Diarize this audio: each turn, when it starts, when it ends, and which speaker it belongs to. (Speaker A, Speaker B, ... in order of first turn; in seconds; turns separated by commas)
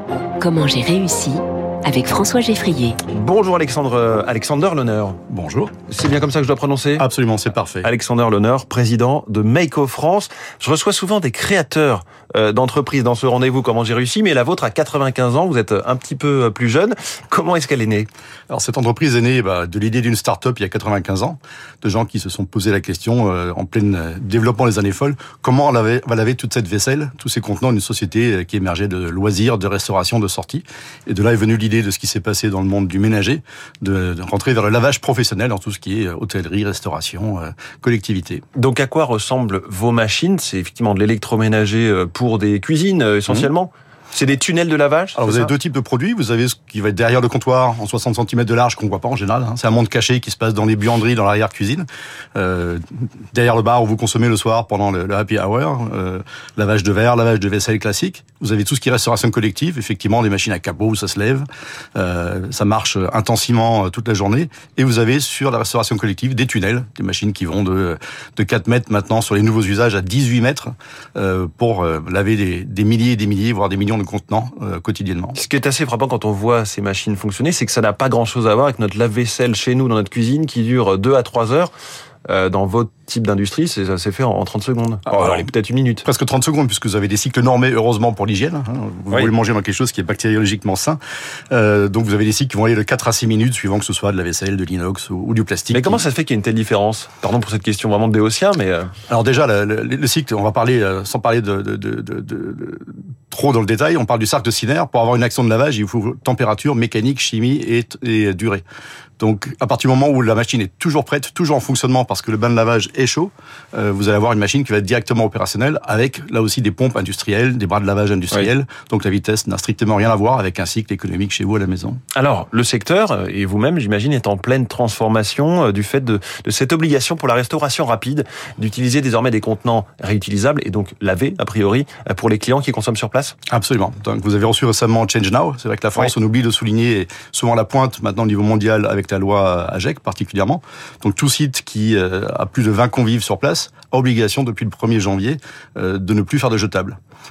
Speaker A: 0.4-3.0, Speaker B: 3.1-5.2, Speaker C: 5.3-5.7, Speaker B: 5.9-7.1, Speaker C: 7.0-7.9, Speaker B: 7.8-18.1, Speaker C: 18.5-38.4, Speaker B: 38.5-45.5, Speaker C: 45.2-61.5, Speaker C: 62.0-75.4, Speaker B: 75.3-81.7, Speaker B: 82.3-86.0, Speaker C: 85.1-85.5, Speaker C: 86.0-91.0, Speaker C: 91.5-96.0, Speaker B: 95.7-98.9, Speaker C: 99.1-108.6, Speaker C: 109.2-122.0, Speaker B: 122.2-133.4, Speaker C: 133.5-147.0